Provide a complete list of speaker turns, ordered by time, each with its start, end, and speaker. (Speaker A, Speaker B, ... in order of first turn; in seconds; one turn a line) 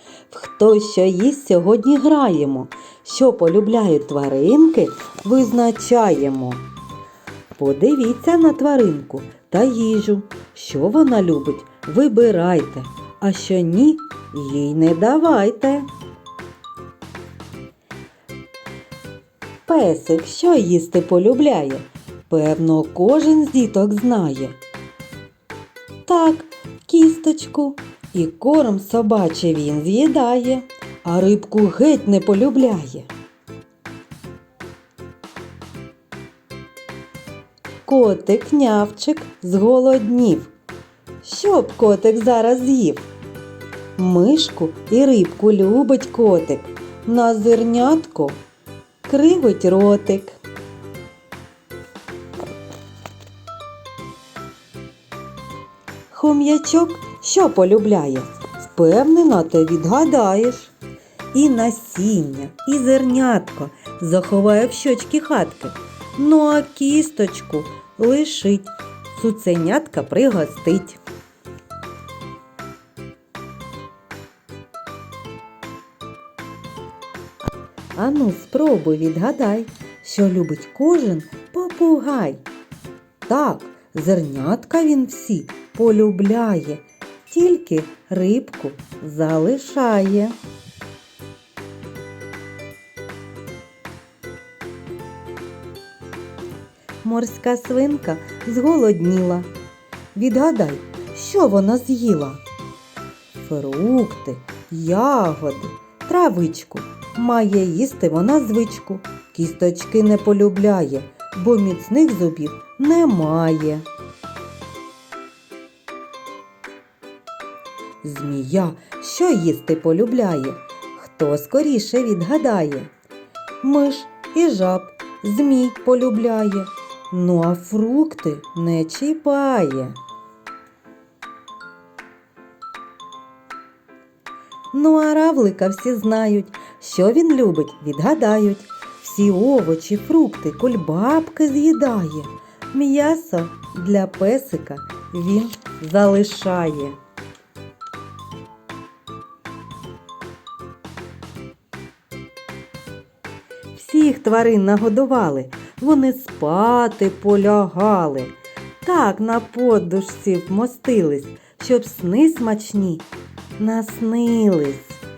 Speaker A: 0.3-6.7
Speaker A: 7.5-15.9
Speaker A: 19.7-24.6
Speaker A: 26.1-33.1
Speaker A: 37.9-40.5
Speaker A: 41.2-43.1
Speaker A: 44.0-48.4
Speaker A: 49.0-50.4
Speaker A: 56.1-60.7
Speaker A: 61.3-71.0
Speaker A: 78.0-82.4
Speaker A: 83.3-90.4
Speaker A: 97.0-99.5
Speaker A: 100.1-102.4
Speaker A: 103.4-113.9
Speaker A: 118.0-122.9
Speaker A: 123.6-130.0
Speaker A: 134.7-147.0
Speaker A: 153.7-163.1
Speaker A: 163.6-165.0